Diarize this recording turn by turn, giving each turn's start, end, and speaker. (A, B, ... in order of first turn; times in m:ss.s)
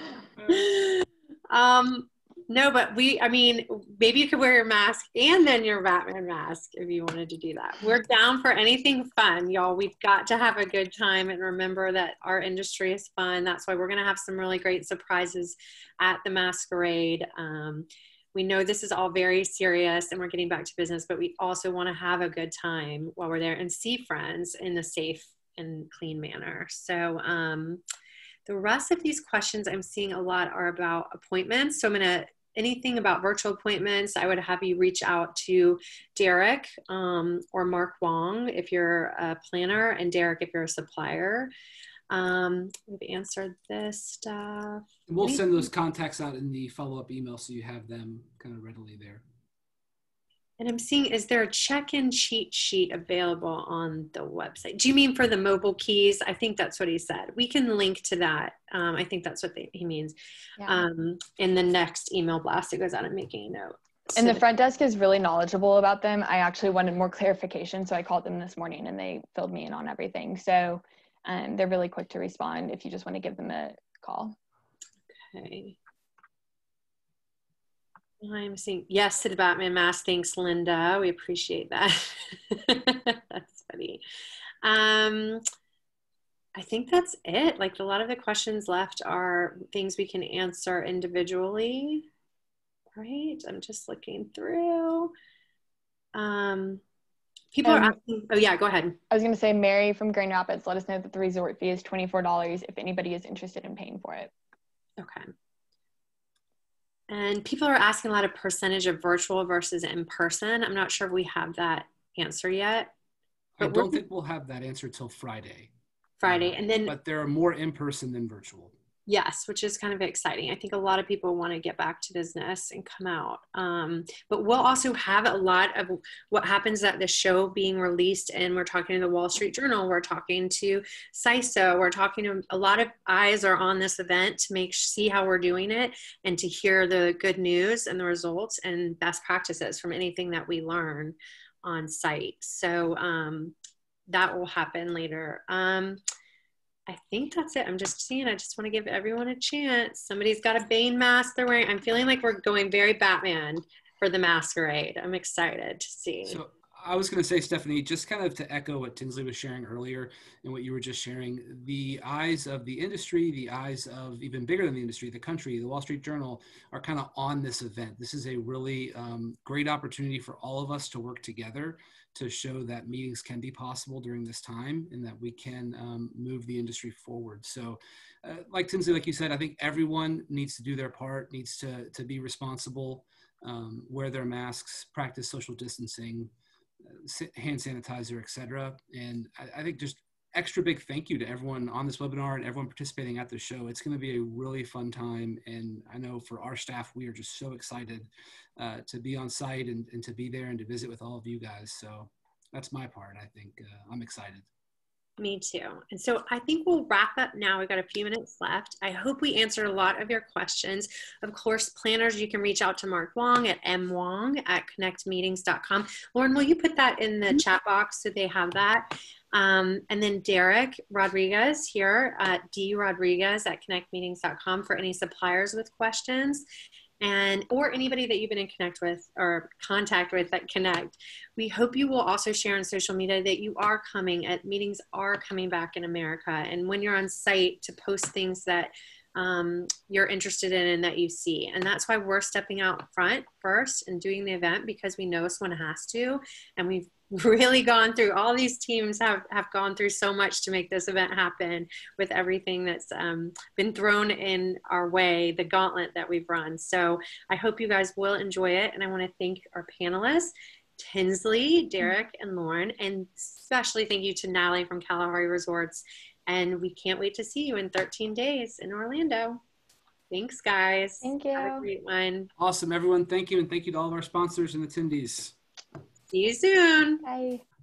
0:00.5-0:27.8 A
0:28.4-0:41.5 A
0:42.1-0:45.7 A
0:45.1-0:49.2 B
0:50.6-1:00.1 A
1:00.6-1:00.8 C
1:00.7-1:04.4 A
1:04.2-1:14.4 C
1:15.1-1:15.8 A
1:18.2-1:24.0 A
1:24.6-1:25.4 A
1:26.6-1:32.1 A
1:33.0-1:35.1 A
1:36.1-1:36.8 A
1:37.5-1:39.0 A
1:37.6-1:37.9 C
1:39.1-1:44.3 C
1:45.0-1:45.3 A
1:47.1-1:52.9 A
1:53.6-1:55.7 B
1:53.6-1:54.0 A
1:56.2-1:56.9 A
1:56.2-1:58.7 B
1:59.1-2:23.5 A
2:24.1-2:26.0 A
2:26.9-2:36.4 A
2:36.2-3:06.3 B
3:06.9-3:24.4 B
3:25.2-3:46.4 A
3:47.0-4:29.4 A
4:30.1-4:32.3 A
4:31.0-4:31.7 C
4:32.4-4:35.3 B
4:36.1-4:37.0 A
4:37.0-4:37.4 C